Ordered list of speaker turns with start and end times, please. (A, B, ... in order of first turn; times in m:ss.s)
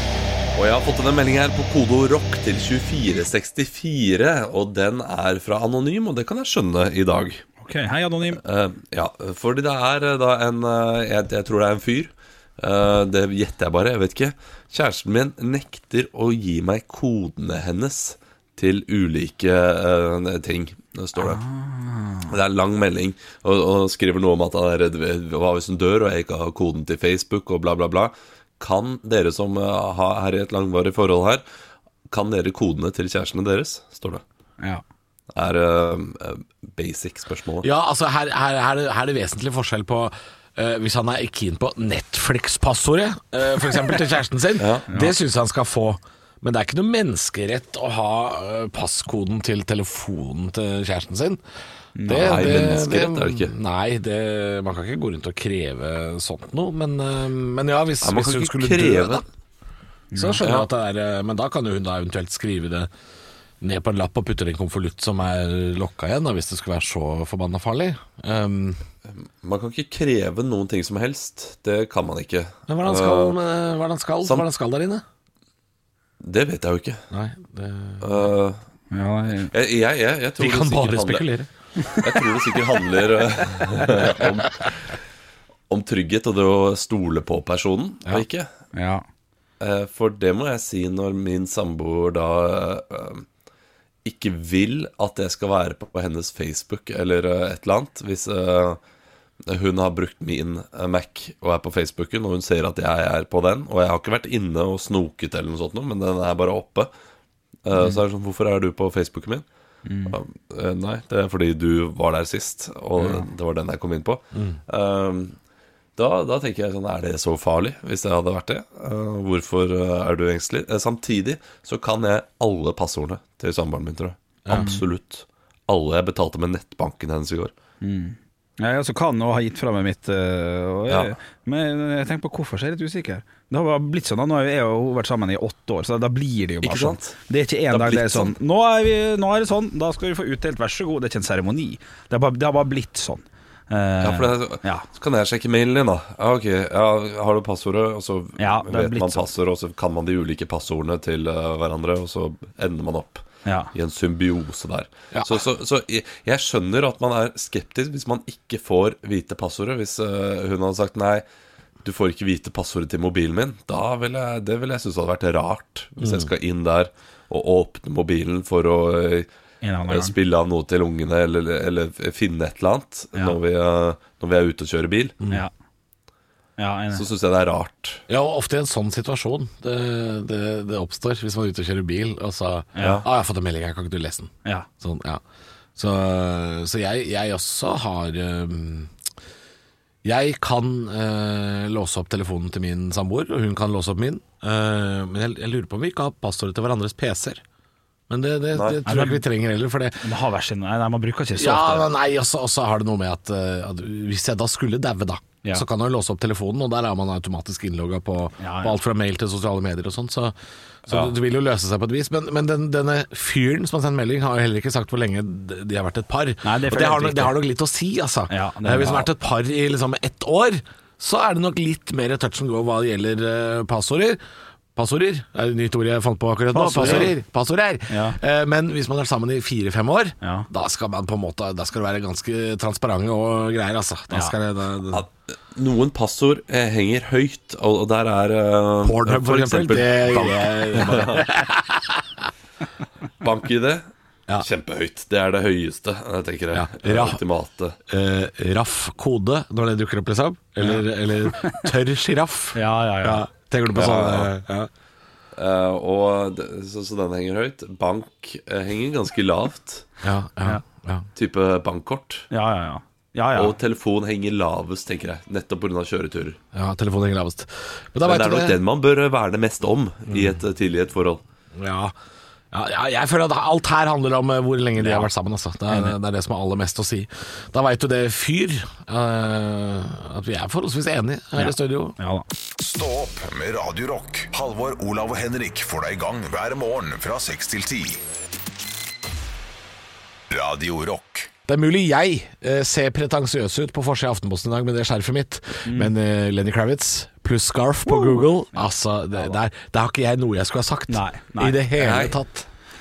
0:00.5-0:07.4 A
0:07.6-0:08.4 B
0:08.4-0:21.4 A
0:21.2-0:22.3 B
0:22.3-0:31.4 A
0:32.1-0:34.2 A
0:35.3-0:37.7 A
0:37.6-0:51.4 C
0:44.6-0:44.8 A
0:44.9-0:45.1 B
0:52.0-0:52.5 B
0:52.0-0:59.2 C
0:52.1-0:53.5 A
0:58.0-0:59.2 A
1:00.1-1:00.6 B
1:00.2-1:02.9 C
1:03.6-1:08.8 C
1:09.1-1:13.4 A
1:12.7-1:15.0 C
1:16.2-1:17.0 A
1:17.1-1:18.3 C
1:18.0-1:18.6 A
1:18.9-1:19.5 B
1:19.5-1:21.3 A
1:20.4-1:21.5 C
1:21.9-1:24.9 A
1:25.7-1:28.5 A
1:28.7-1:29.0 B
1:29.6-1:33.2 A
1:34.0-1:38.8 A
1:39.5-1:46.9 A
1:47.6-1:49.4 A
1:49.8-1:50.2 B
1:50.1-1:55.3 A
1:53.0-1:53.3 B
1:54.3-1:54.6 C
1:56.0-2:07.5 A
2:04.4-2:04.8 C
2:04.5-2:04.8 B
2:07.8-2:24.9 B
2:16.6-2:17.2 A
2:17.7-2:18.3 A
2:24.0-2:41.2 A
2:28.4-2:29.3 B
2:33.4-2:33.7 B
2:35.1-2:35.4 C
2:41.8-2:49.3 A
2:46.0-2:46.3 C
2:49.6-2:50.1 B
2:49.9-2:55.2 A
2:56.6-2:57.0 B
2:56.9-2:58.0 A
2:58.1-3:05.2 C
3:02.8-3:03.0 B
3:02.8-3:03.0 A
3:05.8-3:08.9 C
3:10.0-3:17.4 C
3:18.1-3:20.0 C
3:18.5-3:18.8 A
3:18.8-3:19.2 B
3:20.0-3:21.9 B
3:21.3-3:30.3 C
3:28.4-3:28.8 B
3:30.9-3:44.2 C
3:36.4-3:37.4 B
3:38.3-3:39.1 B
3:44.8-3:55.0 C
3:46.5-3:47.1 B
3:47.9-3:48.2 B
3:50.2-3:50.5 B
3:54.9-4:01.3 A
3:58.8-4:02.3 C
4:03.2-4:03.9 A
4:04.4-4:07.8 A
4:06.5-4:07.2 C
4:07.9-4:14.7 C
4:10.6-4:11.6 B
4:12.5-4:13.3 B
4:13.7-4:14.3 A
4:15.4-4:19.9 A
4:20.0-4:21.1 C
4:21.2-4:22.3 A
4:22.3-4:23.5 B
4:23.3-4:26.4 A
4:26.5-4:28.6 C
4:28.0-4:31.2 A
4:30.1-4:30.4 C
4:31.6-4:31.9 C
4:32.5-4:42.0 C
4:35.7-4:35.9 B
4:41.3-4:42.2 B
4:42.6-4:48.0 D
4:50.3-4:51.3 D
4:51.5-5:02.5 C
4:55.6-4:55.9 B
4:57.8-4:59.3 B
5:00.9-5:01.6 B
5:01.8-5:02.2 A